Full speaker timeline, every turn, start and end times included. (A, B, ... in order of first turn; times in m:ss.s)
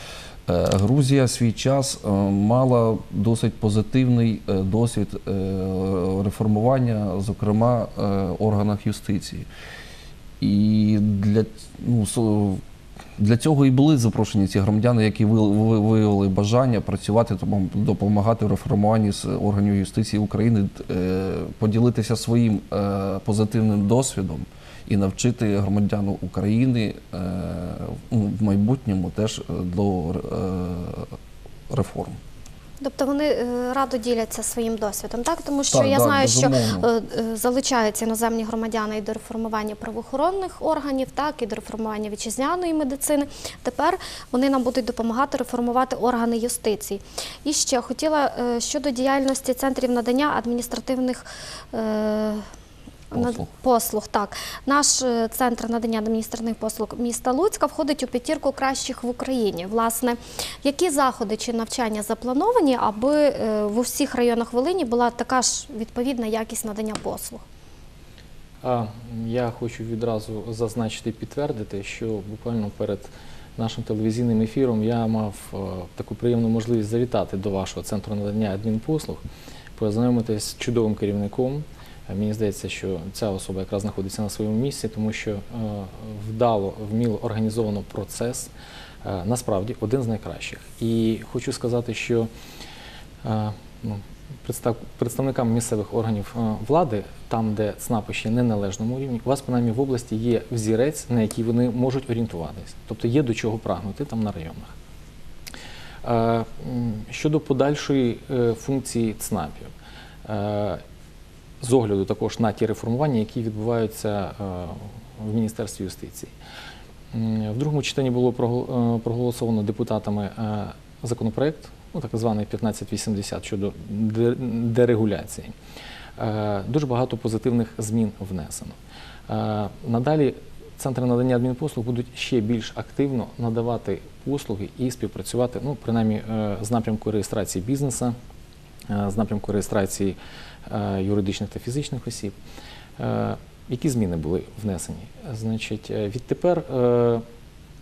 0:00.4-0:09.5 A
0:10.4-0:12.6 A
0:13.2-0:31.2 A
0:31.7-0:32.2 A
0:32.8-0:52.4 B
0:35.7-0:36.9 A
0:53.1-1:07.4 B
0:53.2-0:53.4 A
1:08.6-1:19.2 C
1:19.8-1:28.5 C
1:29.0-1:32.3 C
1:33.2-1:44.7 C
1:46.0-1:49.7 C
1:50.2-1:50.8 C
1:51.6-1:56.3 C
1:57.1-2:05.5 C
2:06.2-2:08.8 C
2:09.3-2:18.2 C
2:18.9-2:22.3 C
2:23.0-2:27.2 C